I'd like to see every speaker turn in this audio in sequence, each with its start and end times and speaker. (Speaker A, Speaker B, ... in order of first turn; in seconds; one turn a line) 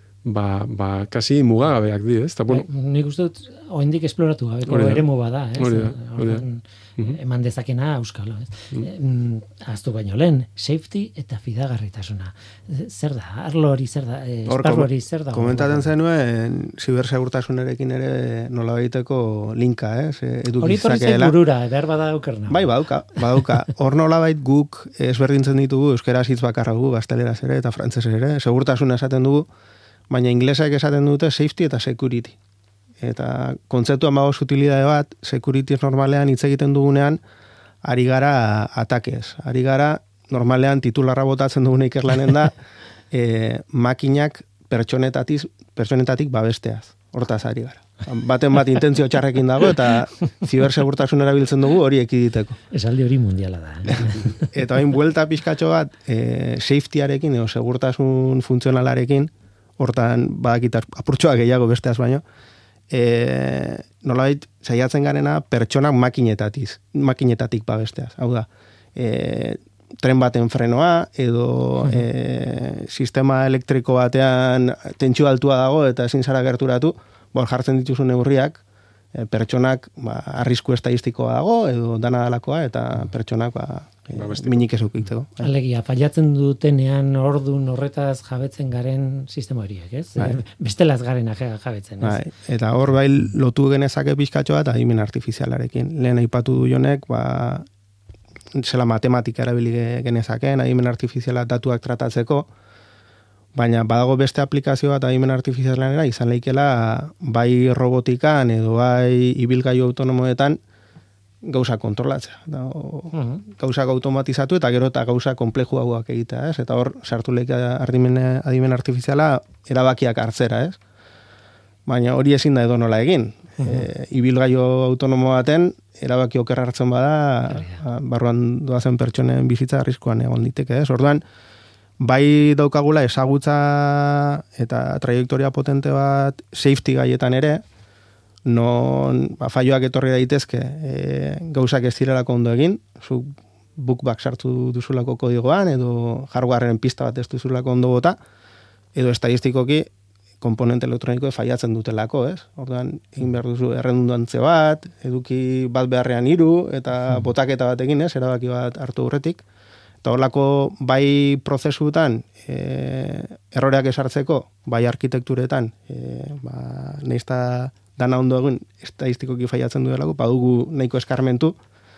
Speaker A: 0.2-2.6
Speaker B: 2.5-15.9
Speaker A: 4.7-5.0
Speaker A: 5.6-6.4
Speaker C: 14.5-21.3
Speaker B: 20.6-22.7
Speaker C: 22.5-29.5
Speaker C: 30.1-32.4
Speaker C: 33.0-37.2
Speaker C: 37.8-42.6
Speaker C: 43.1-52.6
Speaker B: 52.7-54.5
Speaker C: 53.9-62.2
Speaker C: 62.9-78.6
Speaker C: 79.1-85.5
Speaker A: 84.1-84.7
Speaker B: 85.4-92.2
Speaker C: 92.0-97.7
Speaker C: 98.5-102.5
Speaker C: 103.5-110.6
Speaker C: 111.5-120.8
Speaker B: 113.1-113.4
Speaker C: 121.9-131.2
Speaker B: 127.5-127.8
Speaker C: 132.0-137.6
Speaker C: 138.4-148.2
Speaker C: 148.9-149.9
Speaker C: 150.4-159.4
Speaker C: 160.0-171.6